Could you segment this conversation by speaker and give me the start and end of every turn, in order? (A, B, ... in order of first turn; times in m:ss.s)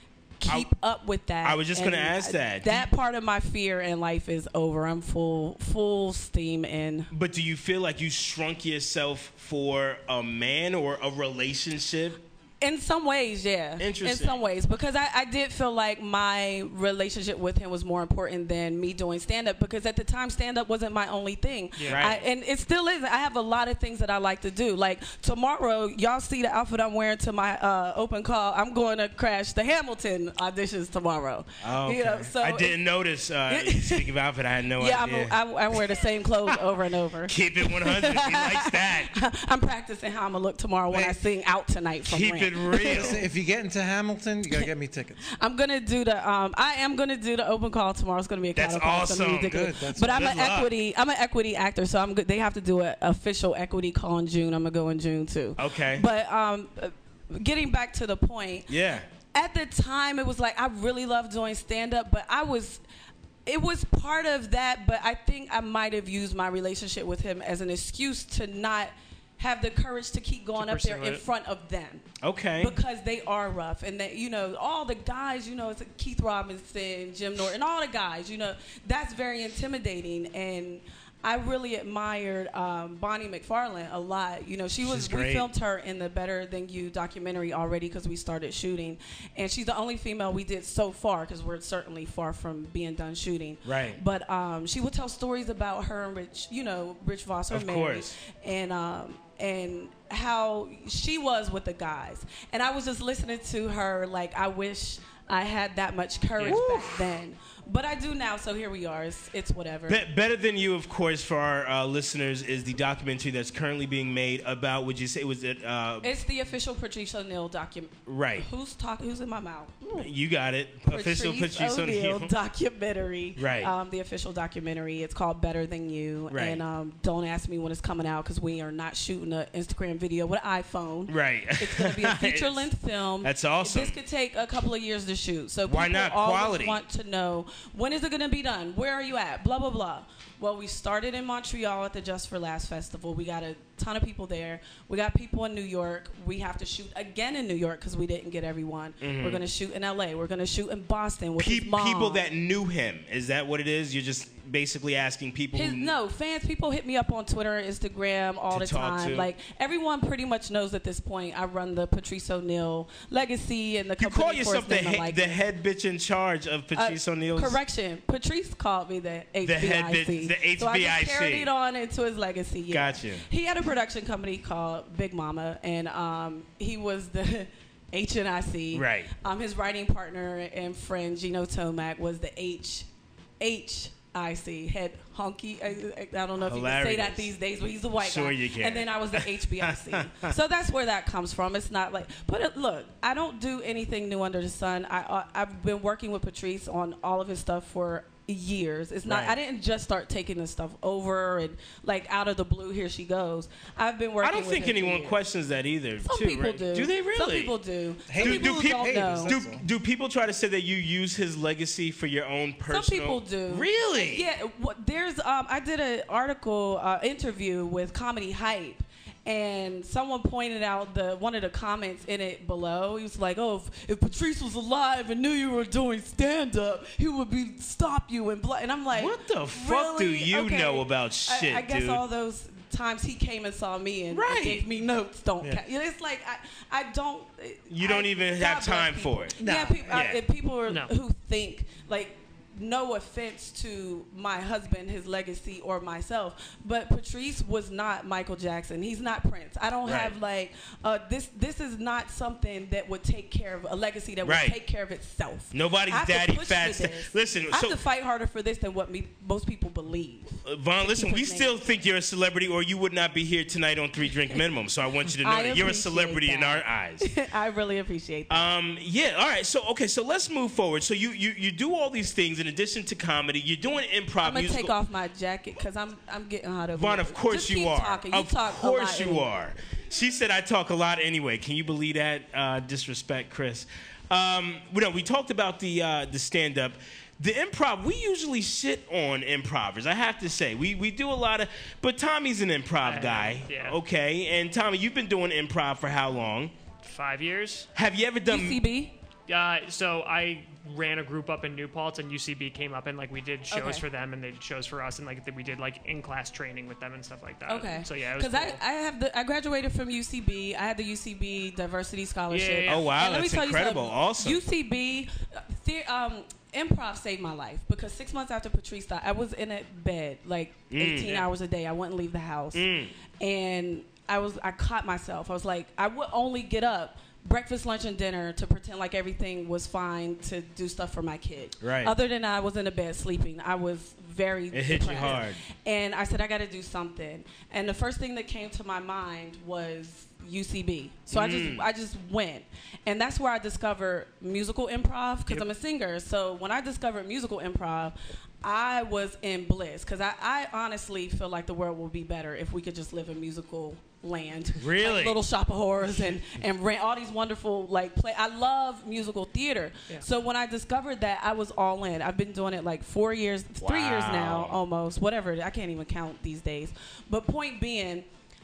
0:00.4-0:07.1 A
0:01.4-0:02.9 B
0:07.1-0:12.2 B
0:12.6-0:32.8 A
0:13.8-0:14.4 B
0:21.9-0:22.2 B
0:31.6-0:35.4 B
0:33.5-0:34.1 A
0:34.8-0:43.2 A
0:37.3-0:39.2 B
0:42.1-0:43.2 B
0:42.9-0:45.2 C
0:45.4-0:58.7 A
0:48.6-0:50.7 B
0:49.5-0:50.3 C
0:55.6-0:56.0 B
0:58.7-0:59.1 B
0:59.3-1:02.8 A
1:03.4-1:12.0 A
1:10.6-1:11.2 D
1:12.2-1:12.8 B
1:12.6-1:50.0 A
1:24.8-1:25.5 B
1:33.6-1:34.0 B
1:37.5-1:38.1 B
1:46.4-1:47.1 B
1:49.9-1:56.1 B
1:56.0-2:00.1 A
1:58.1-1:58.5 B
1:59.9-2:02.3 B
2:00.9-2:32.2 A
2:03.4-2:03.7 B
2:06.3-2:06.6 B
2:11.1-2:12.7 B
2:13.2-2:14.0 B
2:15.7-2:16.8 B
2:29.0-2:29.4 B
2:31.4-2:35.9 B
2:35.5-2:45.4 A
2:38.5-2:39.3 B
2:44.0-2:47.6 B
2:46.7-3:02.9 A
2:49.4-2:51.5 B
2:52.7-2:53.2 B
2:58.7-2:59.1 B
3:03.4-3:25.2 A
3:06.4-3:07.3 B
3:08.0-3:10.3 B
3:19.0-3:19.4 B
3:24.2-3:27.6 B
3:26.0-3:29.3 A
3:28.1-3:29.6 C
3:28.2-3:34.3 B
3:32.7-4:21.5 A
3:48.9-3:52.0 B
3:54.1-3:54.6 B
3:57.7-4:00.2 B
3:59.4-4:00.1 C
4:09.8-4:10.1 B
4:14.2-4:14.6 B
4:15.5-4:17.8 B
4:20.4-4:27.1 B
4:25.2-4:28.5 A
4:28.3-4:34.7 B
4:34.2-4:39.3 A
4:36.8-4:56.5 B
4:52.8-4:53.8 D
4:56.8-4:57.7 D
4:57.8-4:58.6 B
4:58.3-4:58.9 A
4:59.3-5:08.6 D
5:03.5-5:03.8 A
5:07.5-5:22.6 A
5:12.3-5:12.8 D
5:12.7-5:14.4 B
5:20.7-5:21.3 B
5:22.5-5:22.9 B
5:23.2-6:08.1 A
5:31.6-5:31.9 B
5:34.5-5:35.4 B
5:41.1-5:41.6 B
5:54.6-5:55.2 B
6:03.6-6:04.6 B